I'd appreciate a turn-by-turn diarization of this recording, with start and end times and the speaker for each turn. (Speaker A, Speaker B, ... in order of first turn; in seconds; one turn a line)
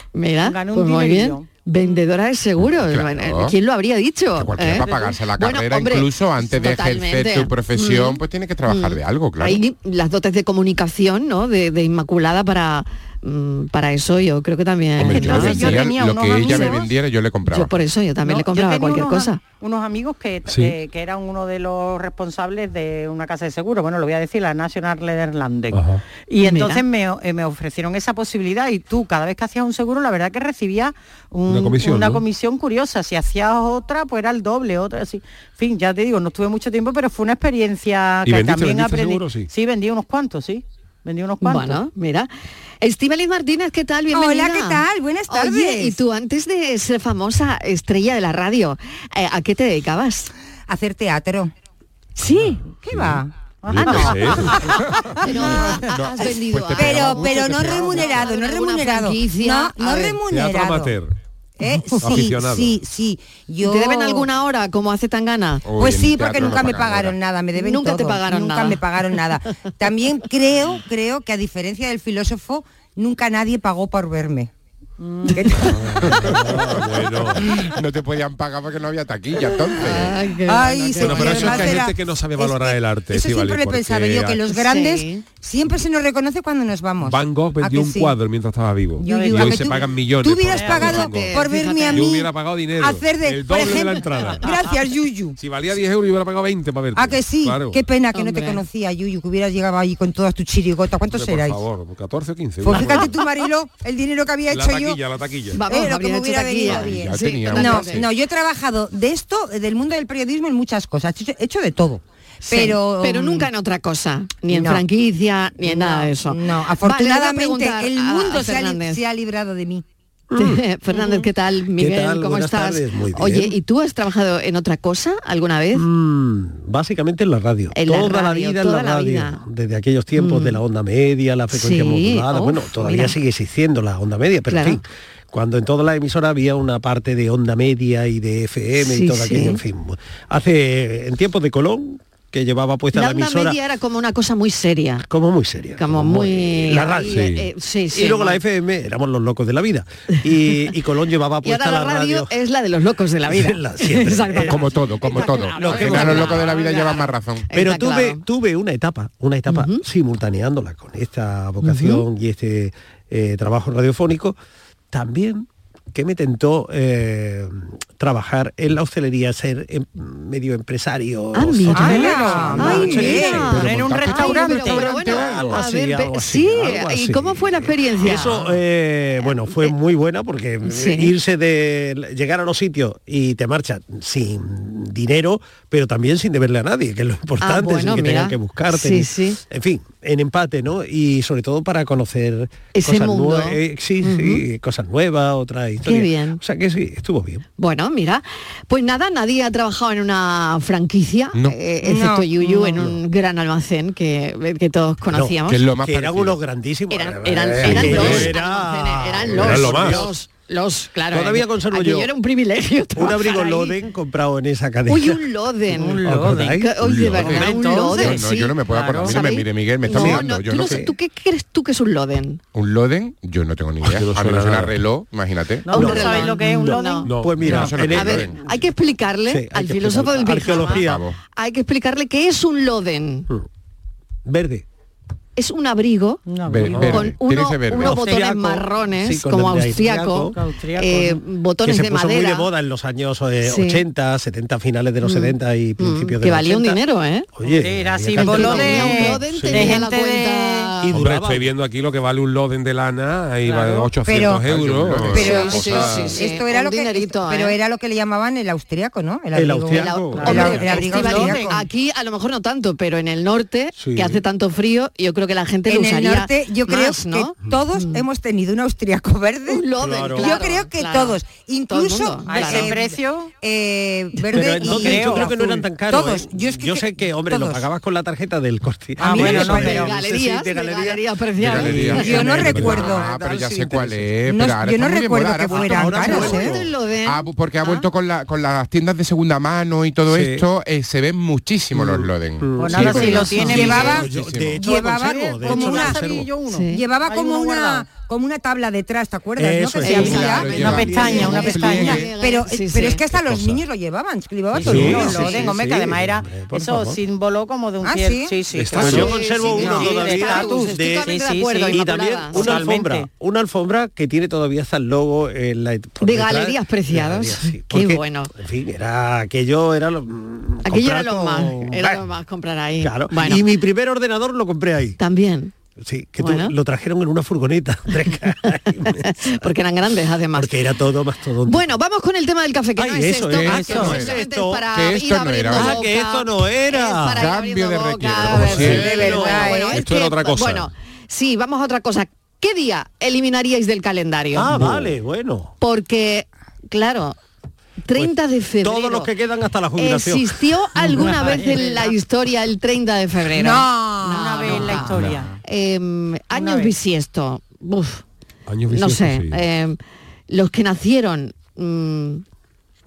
Speaker A: 0.1-15.9
Speaker B: 0.4-1.9
Speaker C: 2.9-3.6
Speaker C: 4.4-9.6
Speaker B: 4.8-5.2
Speaker C: 15.0-17.7
Speaker B: 15.1-16.9
Speaker A: 16.4-16.8
Speaker A: 17.5-19.4
Speaker B: 18.2-41.8
Speaker D: 20.5-20.8
Speaker D: 25.7-26.0
Speaker A: 26.4-26.8
Speaker D: 31.5-32.2
Speaker D: 38.2-39.5
Speaker A: 41.4-50.3
Speaker E: 44.1-46.0
Speaker E: 50.7-51.5
Speaker A: 52.2-52.6
Speaker D: 52.3-54.6
Speaker E: 52.8-53.3
Speaker B: 53.6-54.6
Speaker A: 53.9-54.1
Speaker E: 54.0-54.5
Speaker C: 54.6-58.3
Speaker A: 55.2-60.2
Speaker E: 56.8-61.0
Speaker D: 60.3-61.1
Speaker E: 61.6-64.3
Speaker D: 62.0-62.8
Speaker A: 63.6-65.6
Speaker C: 65.7-67.2
Speaker E: 65.8-74.5
Speaker A: 67.6-68.8
Speaker B: 75.0-75.3
Speaker A: 75.3-75.7
Speaker E: 75.3-76.3
Speaker D: 75.8-77.5
Speaker C: 76.0-76.7
Speaker C: 77.3-80.2
Speaker A: 79.8-81.7
Speaker E: 80.5-88.2
Speaker B: 80.6-81.7
Speaker D: 81.0-84.4
Speaker A: 84.5-85.2
Speaker D: 87.0-94.5
Speaker B: 89.0-89.8
Speaker E: 89.0-95.4
Speaker B: 90.5-91.0
Speaker A: 90.7-92.1
Speaker D: 95.4-97.8
Speaker E: 97.0-101.6
Speaker A: 98.1-98.6
Speaker D: 101.1-103.3
Speaker E: 102.6-105.0
Speaker D: 104.5-105.6
Speaker A: 105.5-108.0
Speaker E: 105.7-113.5
Speaker C: 106.6-108.1
Speaker A: 112.5-119.0
Speaker E: 114.5-114.8
Speaker E: 115.6-119.8
Speaker F: 120.3-121.2
Speaker A: 120.3-125.9
Speaker F: 121.8-123.6
Speaker F: 125.8-143.6
Speaker A: 127.7-129.4
Speaker A: 130.2-130.6
Speaker A: 131.5-133.2
Speaker A: 134.5-134.8
Speaker A: 138.8-139.6
Speaker A: 142.9-145.1
Speaker F: 145.1-147.3
Speaker A: 145.8-148.4
Speaker D: 147.1-147.5
Speaker F: 147.9-152.3
Speaker A: 151.4-158.2
Speaker F: 153.3-156.6
Speaker C: 154.4-157.5
Speaker F: 157.5-164.4
Speaker A: 159.5-159.8
Speaker A: 161.6-162.0
Speaker F: 164.9-173.7
Speaker A: 171.3-178.5
Speaker E: 171.7-173.6
Speaker B: 172.5-175.0
Speaker C: 173.5-175.6
Speaker F: 174.7-197.4
Speaker A: 179.2-179.7
Speaker A: 180.7-181.1
Speaker A: 187.4-189.4
Speaker A: 192.7-194.4
Speaker A: 195.8-196.4
Speaker A: 197.6-205.6
Speaker E: 201.8-202.9
Speaker F: 205.1-210.1
Speaker C: 205.5-206.4
Speaker A: 206.9-213.7
Speaker C: 207.6-208.3
Speaker D: 209.3-210.1
Speaker F: 211.1-212.1
Speaker F: 213.0-215.2
Speaker A: 214.9-222.4
Speaker B: 215.7-219.2
Speaker F: 216.0-216.8
Speaker C: 216.8-220.8
Speaker F: 217.3-217.7
Speaker F: 219.9-220.9
Speaker C: 222.5-225.9
Speaker D: 223.8-224.8
Speaker B: 225.7-227.7
Speaker F: 225.7-228.3
Speaker A: 225.7-233.3
Speaker D: 227.1-227.6
Speaker C: 227.4-228.3
Speaker F: 229.3-231.1
Speaker C: 230.5-231.2
Speaker F: 234.3-234.7
Speaker A: 235.4-236.2
Speaker B: 236.3-237.1
Speaker C: 236.5-238.0
Speaker A: 236.8-242.5
Speaker F: 237.8-240.4
Speaker B: 240.3-241.2
Speaker F: 241.6-246.8
Speaker A: 243.4-243.8
Speaker A: 245.0-247.3
Speaker F: 247.3-249.4
Speaker B: 247.4-250.8
Speaker A: 248.2-251.0
Speaker D: 249.3-249.7
Speaker F: 250.8-251.5
Speaker D: 250.9-256.2
Speaker E: 254.0-254.5
Speaker C: 254.5-255.1
Speaker E: 255.0-261.6
Speaker A: 255.1-257.6
Speaker F: 259.3-260.9
Speaker A: 259.7-268.0
Speaker B: 260.1-261.6
Speaker F: 263.8-264.2
Speaker E: 265.7-269.6
Speaker A: 269.5-272.8
Speaker F: 269.8-270.4
Speaker E: 270.2-277.6
Speaker B: 272.3-273.3
Speaker F: 274.3-284.2
Speaker B: 274.6-275.7
Speaker B: 279.0-280.0
Speaker A: 279.1-282.4
Speaker E: 279.1-279.8
Speaker C: 281.4-286.4
Speaker E: 282.0-283.1
Speaker D: 282.5-282.8
Speaker E: 284.3-286.5
Speaker F: 285.5-286.7
Speaker A: 285.8-287.8
Speaker C: 287.1-294.6
Speaker F: 290.1-290.4
Speaker F: 291.7-296.3
Speaker B: 292.6-294.1
Speaker A: 292.9-293.7
Speaker E: 293.1-296.0
Speaker B: 294.7-297.9
Speaker A: 296.5-296.8
Speaker E: 296.7-305.6
Speaker F: 299.4-301.6
Speaker A: 299.8-303.1
Speaker C: 300.1-302.1
Speaker B: 300.5-302.0
Speaker F: 303.2-303.6
Speaker F: 304.5-307.0
Speaker B: 304.6-313.1
Speaker E: 307.8-309.9
Speaker D: 308.6-308.9
Speaker F: 308.7-311.1
Speaker A: 308.9-312.7
Speaker F: 311.7-322.1
Speaker A: 316.0-318.3
Speaker A: 320.6-323.4
Speaker F: 322.8-325.0
Speaker A: 325.0-325.5
Speaker F: 325.8-329.5
Speaker A: 326.2-326.5
Speaker A: 328.9-330.5
Speaker F: 330.4-331.7
Speaker A: 331.5-344.9
Speaker F: 332.8-334.7
Speaker C: 333.4-335.9
Speaker B: 333.5-334.0
Speaker F: 335.5-337.3
Speaker C: 337.2-339.1
Speaker F: 338.3-339.6
Speaker E: 338.7-339.9
Speaker D: 339.7-340.7
Speaker F: 344.3-345.5
Speaker A: 345.6-347.2
Speaker A: 347.9-349.1
Speaker F: 347.9-350.5
Speaker A: 349.8-358.0
Speaker B: 350.8-352.0
Speaker E: 353.4-354.8
Speaker B: 354.0-355.4
Speaker B: 356.3-356.7
Speaker D: 358.5-359.4
Speaker A: 358.7-359.8
Speaker A: 360.3-362.2